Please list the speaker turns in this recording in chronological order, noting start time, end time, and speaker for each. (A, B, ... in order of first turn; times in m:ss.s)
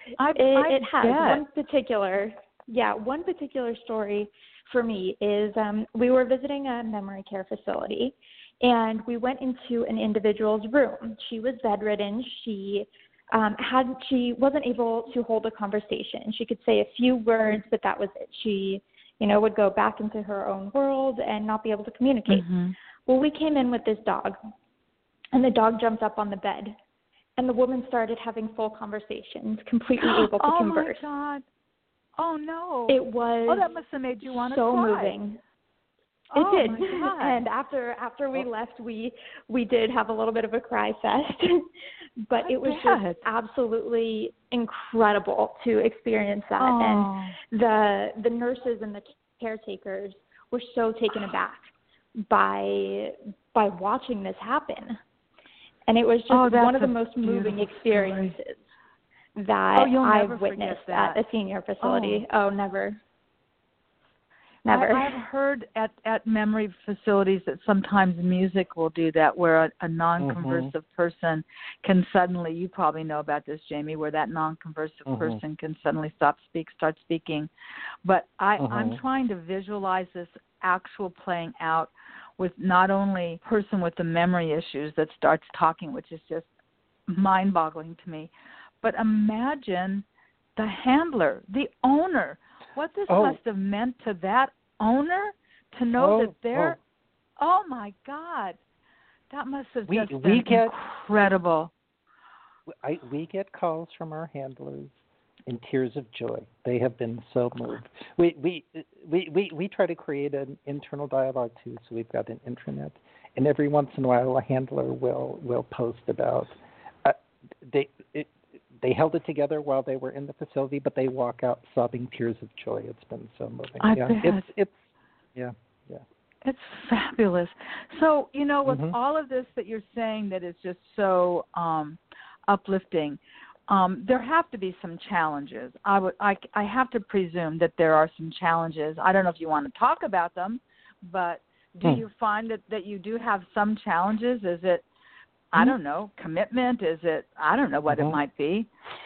0:00.2-0:01.4 A
0:00.3-0:22.5 B
0:22.3-0:22.8 A
0:23.1-0:24.4 B
0:25.3-0:26.8 B
0:27.4-0:31.0 B
0:30.0-0:31.4 A
0:32.2-0:35.2 A
0:32.9-0:33.7 B
0:34.2-0:35.4 B
0:36.3-0:37.4 A
0:36.3-0:41.7 B
0:42.3-0:51.6 B
0:42.4-0:43.2 A
0:46.6-0:47.4 A
0:52.2-0:55.0 B
0:55.9-0:58.6 B
0:56.3-0:58.4 A
0:59.4-1:03.0 B
0:59.8-1:01.2 A
1:01.8-1:02.3 A
1:04.7-1:05.2 B
1:04.7-1:17.5 A
1:10.2-1:10.7 C
1:15.1-1:15.4 C
1:18.0-1:26.5 A
1:18.6-1:19.0 C
1:27.1-1:28.3 A
1:28.8-1:30.1 A
1:30.6-1:36.8 A
1:33.1-1:33.4 C
1:36.0-1:36.8 C
1:37.4-1:38.6 A
1:39.3-1:41.7 A
1:39.9-1:40.8 C
1:42.8-2:06.0 C
2:03.8-2:04.5 A
2:06.4-2:24.8 A
2:08.7-2:09.0 C
2:25.5-2:28.7 A
2:27.9-2:28.2 C